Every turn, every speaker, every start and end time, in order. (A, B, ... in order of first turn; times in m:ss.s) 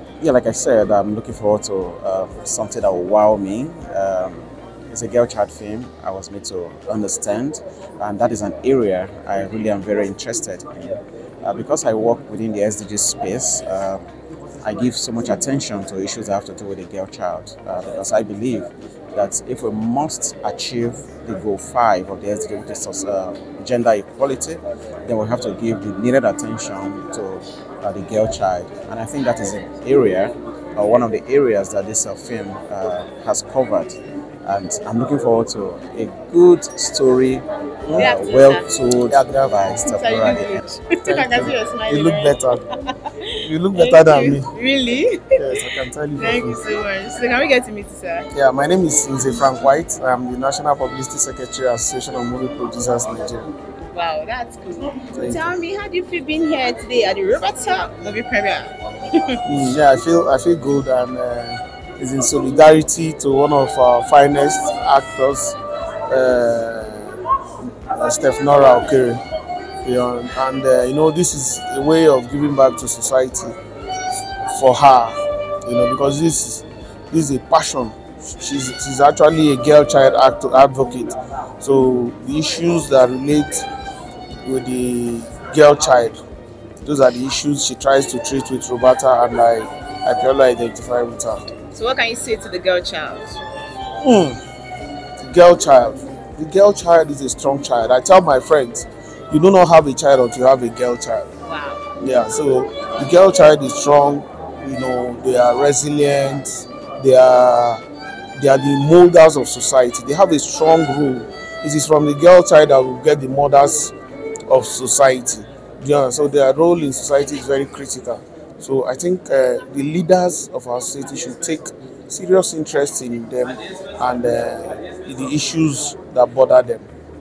0:00.2-0:14.0 A
0:14.6-0:40.6 A
0:38.0-0:38.7 B
0:39.1-0:40.3 C
0:39.9-0:48.3 B
0:41.0-0:42.6 C
0:43.4-0:44.5 C
0:45.4-0:46.6 C
0:48.3-0:53.5 C
0:53.8-0:59.4 B
0:55.1-0:55.4 C
0:59.4-1:07.2 C
1:07.9-1:09.2 C
1:09.8-1:13.6 C
1:14.5-1:23.7 C
1:24.4-1:26.2 C
1:26.8-1:31.4 C
1:31.7-1:33.4 B
1:34.0-1:34.4 C
1:35.2-1:41.3 C
1:41.4-1:41.8 B
1:42.0-1:47.8 C
1:48.4-1:53.9 C
1:54.5-2:06.8 C